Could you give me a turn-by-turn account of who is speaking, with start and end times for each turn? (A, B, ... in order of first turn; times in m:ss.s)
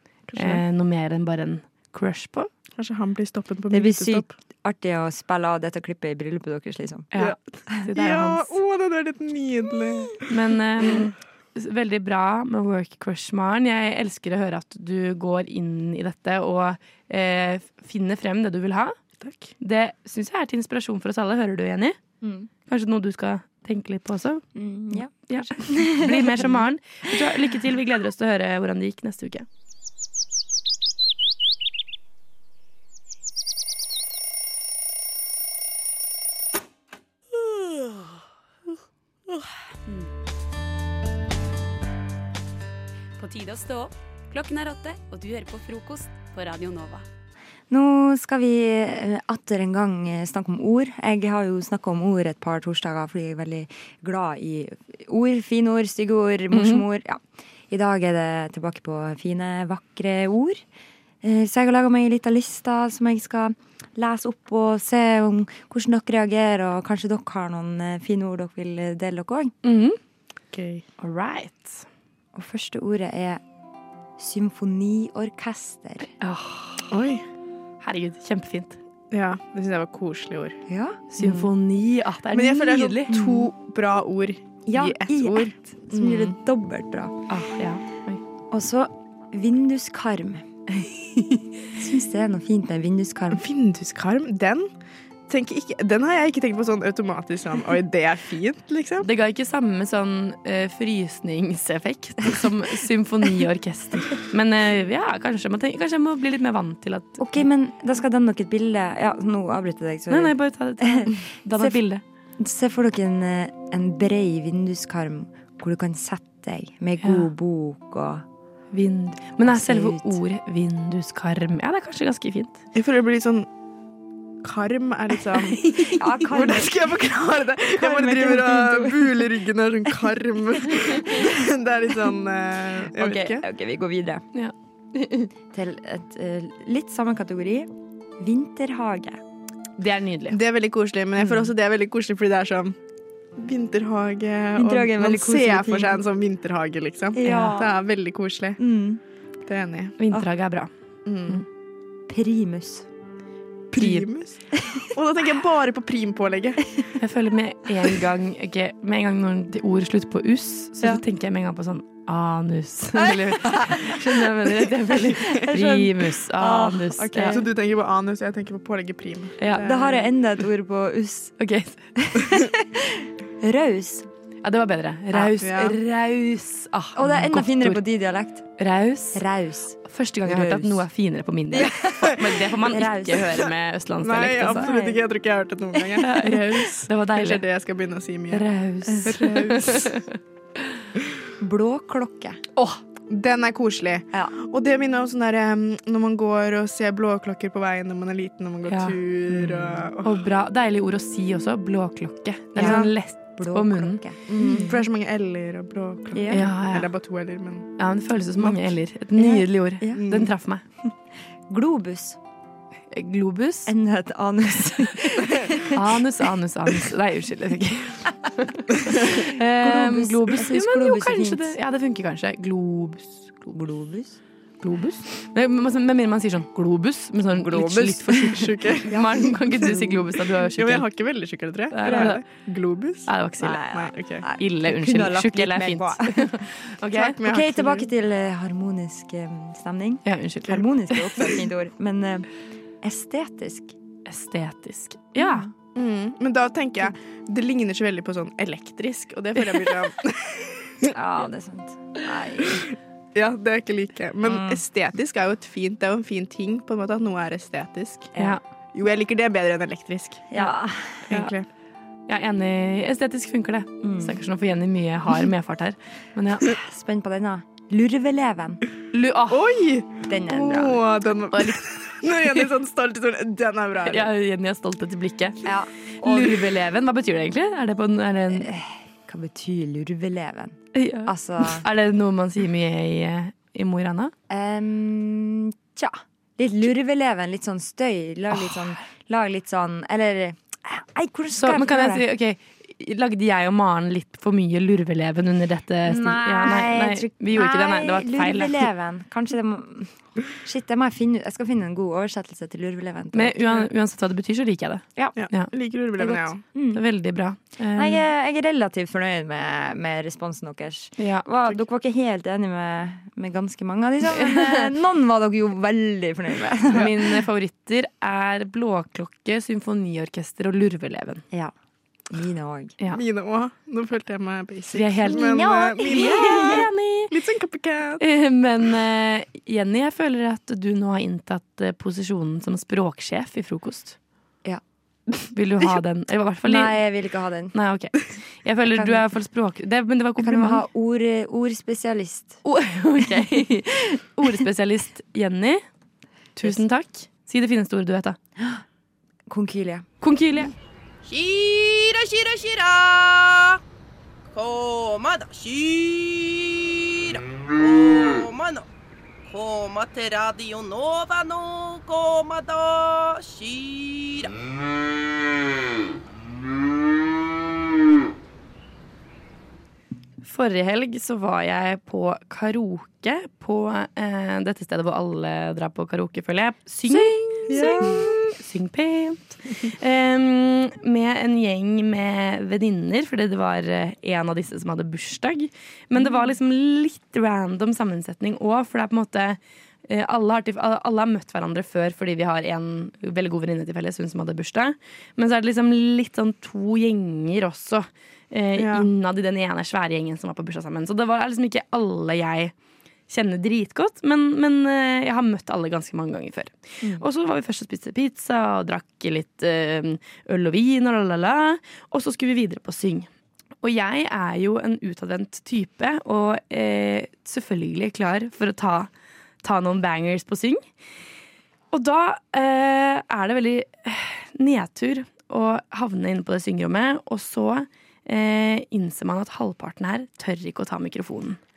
0:00.3-0:00.6 A
0:00.3-0:02.5 B
0:02.8-0:04.3 A
0:03.7-0:07.1 C
0:07.1-0:08.6 B
0:07.9-0:10.3 A
0:10.3-0:19.0 B
0:19.2-0:19.5 A
0:19.6-0:22.0 B
0:22.2-0:22.5 C
0:22.6-0:29.4 B
0:24.6-0:26.6 C
0:43.2-0:47.0 D
0:47.7-1:00.6 C
0:56.5-0:56.8 B
1:01.2-1:09.5 C
1:09.6-1:10.0 B
1:10.5-1:10.8 A
1:11.0-1:11.8 B
1:12.3-1:13.4 C
1:14.2-1:16.1 C
1:16.2-1:16.9 B
1:16.9-1:17.2 A
1:17.8-1:18.8 B
1:19.1-1:20.6 A
1:20.7-1:21.3 C
1:21.1-1:23.2 B
1:22.3-1:26.4 A
1:23.1-1:23.5 C
1:24.7-1:27.1 C
1:27.3-1:28.2 B
1:28.5-1:30.4 C
1:31.8-1:33.4 C
1:33.3-1:34.7 A
1:35.3-1:39.1 A
1:39.0-1:47.2 B
1:47.2-1:51.8 C
1:50.1-1:52.0 B
1:52.4-1:58.2 C
1:57.0-1:57.3 B
1:58.7-2:02.6 B
1:59.4-2:00.2 C
2:02.7-2:03.5 A
2:04.4-2:05.7 A
2:05.6-2:06.0 B
2:06.0-2:06.7 C
2:06.3-2:13.4 A
2:07.8-2:09.3 C
2:13.0-2:14.2 C
2:14.3-2:15.3 B
2:15.5-2:17.7 C
2:18.2-2:19.2 C
2:19.8-2:20.4 B
2:20.3-2:22.7 A
2:23.4-2:28.6 A
2:24.6-2:26.0 C
2:27.1-2:27.7 C
2:28.6-2:29.0 C
2:29.5-2:30.0 A
2:30.0-2:30.7 B
2:31.0-2:31.4 A
2:32.1-2:32.9 C
2:33.7-2:34.4 A
2:33.7-2:34.1 B
2:34.9-2:36.6 A
2:37.0-2:47.4 B
2:43.1-2:43.8 A
2:45.5-2:47.4 C
2:47.2-2:50.0 A
2:49.4-2:49.7 B
2:49.6-2:51.4 C
2:51.4-2:52.1 B
2:52.4-2:52.9 C
2:53.4-2:54.1 C
2:54.4-2:57.8 B
2:55.4-2:55.8 A
2:56.9-2:58.4 C
2:58.6-2:59.2 B
2:59.1-3:00.8 C
2:59.8-3:04.9 B
3:01.5-3:03.3 C
3:04.0-3:08.5 A
3:06.0-3:07.4 B
3:08.3-3:10.1 B
3:09.0-3:09.9 A
3:11.4-3:12.4 C
3:12.6-3:12.8 B
3:13.1-3:20.2 A
3:18.7-3:19.0 B
3:20.0-3:24.0 B
3:22.5-3:24.8 C
3:22.6-3:22.9 A
3:24.3-3:27.7 A
3:26.1-3:26.5 C
3:26.3-3:26.9 B
3:27.8-3:30.6 B
3:28.4-3:28.6 A
3:29.2-3:30.1 C
3:30.0-3:30.3 A
3:31.5-3:32.2 C
3:32.9-3:33.7 B
3:33.7-3:35.7 C
3:35.7-3:43.5 B
3:39.6-3:41.5 C
3:43.5-3:44.2 C
3:44.6-3:50.9 B
3:47.4-3:54.2 A
3:48.9-3:49.8 C
3:51.7-3:52.2 B
3:53.1-3:53.6 B
3:53.4-3:56.2 C
3:54.3-3:57.2 B
3:56.9-3:57.9 A
3:57.2-4:02.3 C
4:00.0-4:00.6 B
4:02.8-4:03.7 C
4:04.0-4:05.5 B
4:05.7-4:10.9 A
4:10.9-4:12.6 C
4:13.1-4:18.1 A
4:14.2-4:14.6 C
4:18.7-4:20.3 A
4:20.3-4:21.0 C
4:21.1-4:21.4 A
4:22.1-4:26.5 B
4:23.8-4:24.2 C
4:26.5-4:28.6 C
4:28.9-4:29.4 B
4:29.3-4:34.1 A
4:30.0-4:30.8 C
4:31.3-4:31.6 B
4:33.8-4:35.4 B
4:35.4-4:36.1 C
4:36.0-4:38.5 B
4:38.3-4:41.6 C
4:40.7-4:44.1 B
4:44.3-4:52.0 C
4:51.3-4:58.7 B
4:55.9-5:03.5 C
5:03.1-5:08.0 B
5:05.2-5:06.5 A
5:06.5-5:06.8 C
5:07.7-5:16.9 C
5:11.0-5:11.3 B
5:14.2-5:14.7 B
5:16.7-5:21.2 B
5:22.1-5:22.8 C
5:22.9-5:28.0 A
5:24.7-5:27.1 B
5:25.8-5:26.7 C
5:28.0-5:34.0 B
5:35.3-5:36.9 B
5:36.4-5:37.6 C
5:37.5-5:40.6 B
5:38.7-5:39.0 C
5:40.2-5:42.4 C
5:42.4-5:45.6 B
5:46.4-5:48.2 B
5:49.3-5:49.8 C
5:50.0-5:50.5 B
5:51.0-5:53.6 E
5:54.3-5:58.6 E
5:59.2-6:04.3 E
6:10.2-6:42.5 B
6:16.9-6:18.2 C
6:38.6-6:38.9 A
6:43.1-6:53.1 B
6:53.6-6:58.9 B
6:59.4-7:00.6 B
7:01.7-7:11.4 B